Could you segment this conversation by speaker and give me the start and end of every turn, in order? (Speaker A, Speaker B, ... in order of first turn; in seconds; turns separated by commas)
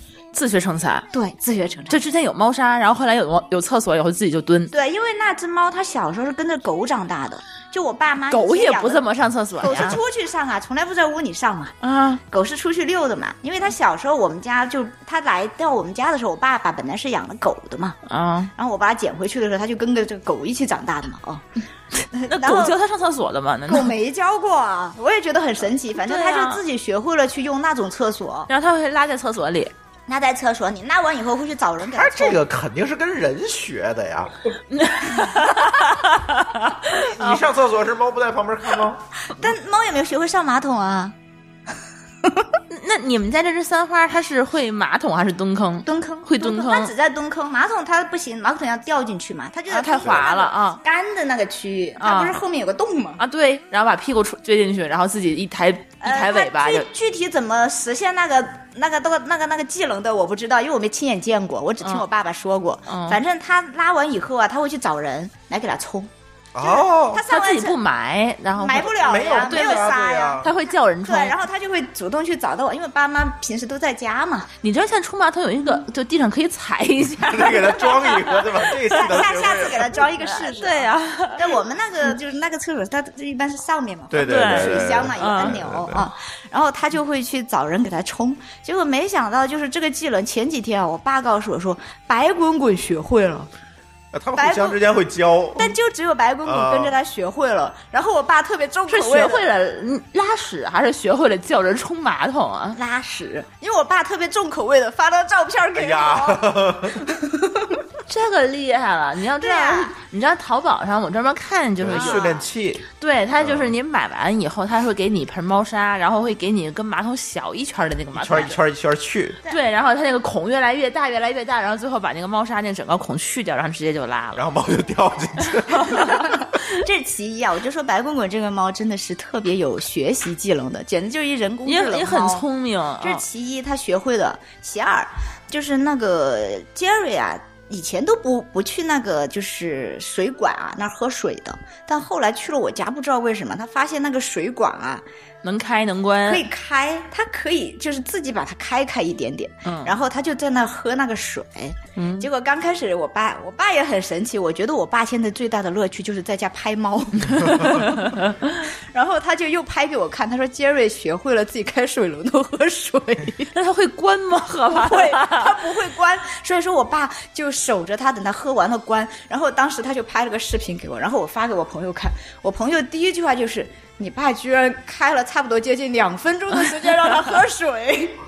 Speaker A: 0.3-1.1, Speaker B: 1.1-2.0, Speaker A: 1.9-4.7, Speaker B: 4.7-9.0, Speaker A: 8.3-10.0, Speaker B: 9.6-11.7, Speaker A: 11.8-12.2, Speaker B: 12.3-18.0, Speaker A: 18.1-18.5, Speaker B: 18.5-21.4, Speaker A: 22.0-23.9, Speaker B: 22.1-22.8, Speaker B: 23.7-28.5, Speaker A: 26.0-26.6, Speaker A: 28.5-29.7, Speaker B: 30.1-32.4, Speaker C: 31.8-34.3, Speaker A: 34.7-37.4, Speaker C: 37.0-39.0, Speaker B: 39.3-41.1, Speaker A: 42.7-46.9, Speaker B: 45.8-53.2, Speaker A: 49.7-50.8, Speaker A: 52.0-52.4, Speaker A: 53.2-56.8, Speaker B: 56.0-67.8, Speaker A: 62.9-63.2, Speaker C: 66.5-67.2, Speaker A: 67.3-71.4, Speaker B: 68.5-70.5, Speaker C: 69.0-70.5, Speaker B: 71.0-74.5, Speaker A: 74.6-78.7, Speaker C: 77.2-80.0, Speaker B: 78.9-93.5, Speaker A: 80.3-81.6, Speaker C: 84.1-86.0, Speaker A: 84.2-85.5, Speaker C: 94.1-95.7, Speaker B: 94.3-94.8, Speaker B: 95.5-99.4, Speaker C: 96.4-96.9, Speaker A: 98.9-102.8, Speaker B: 102.8-107.6, Speaker C: 105.7-107.2, Speaker A: 108.1-112.4, Speaker B: 109.4-109.9, Speaker C: 111.8-112.9, Speaker B: 111.9-112.4, Speaker A: 113.0-118.6, Speaker C: 113.4-113.7, Speaker C: 118.2-119.4, Speaker A: 119.5-124.5, Speaker C: 124.3-126.2, Speaker A: 125.8-126.3, Speaker B: 126.7-132.4, Speaker A: 131.7-133.2, Speaker B: 133.0-145.0, Speaker A: 145.4-146.4, Speaker B: 146.2-163.5, Speaker A: 149.7-149.9, Speaker A: 151.9-152.3, Speaker A: 157.3-158.3, Speaker A: 163.5-165.6, Speaker B: 164.7-178.2